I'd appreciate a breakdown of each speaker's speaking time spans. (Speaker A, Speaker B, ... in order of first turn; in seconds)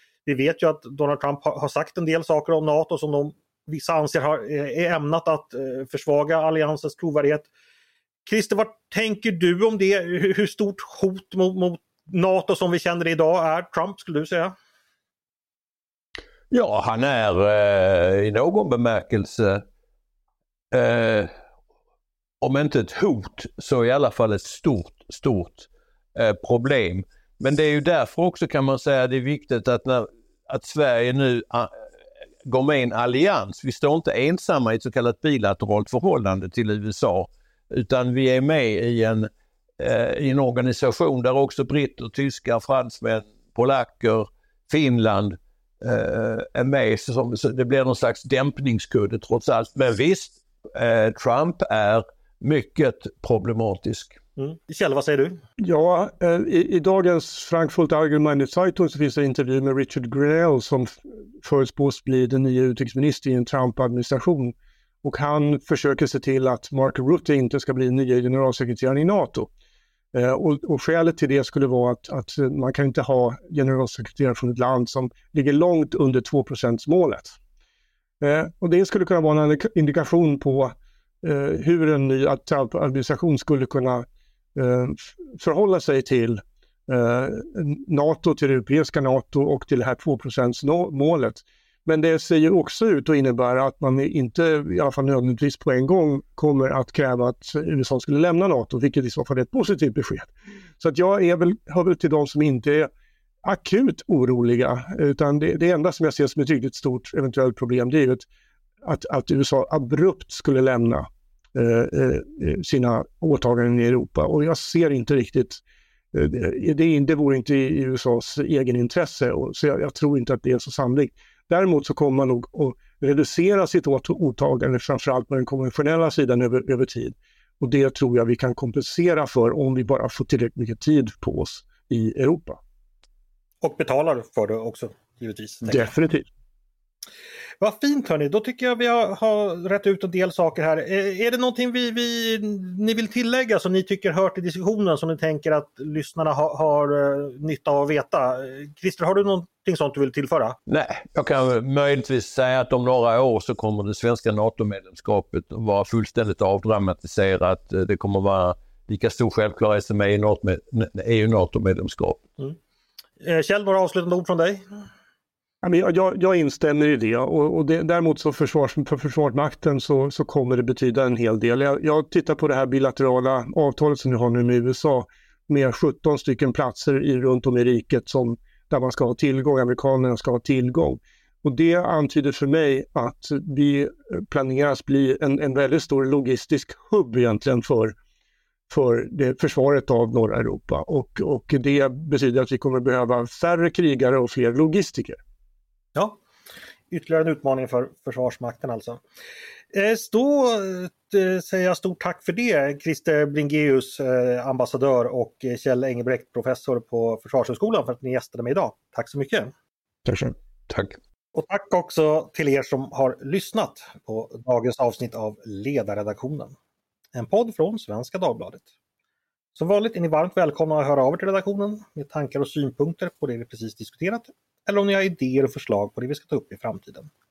Speaker A: 0.3-7.5, 8.3-14.6, 54.4-55.4, 133.6-135.9, 137.6-150.6, 163.2-164.6, 196.9-199.0, 199.7-209.5, 211.3-216.6, 217.1-218.7, 219.6-227.1
Speaker B: 16.5-19.6, 20.7-21.3, 22.4-31.7, 32.5-54.2, 150.7-162.2
Speaker C: 55.6-69.5, 70.1-77.4, 78.2-102.9, 103.4-108.3, 108.8-115.6, 116.1-132.6, 135.7-136.3, 165.6-187.9, 188.7-195.2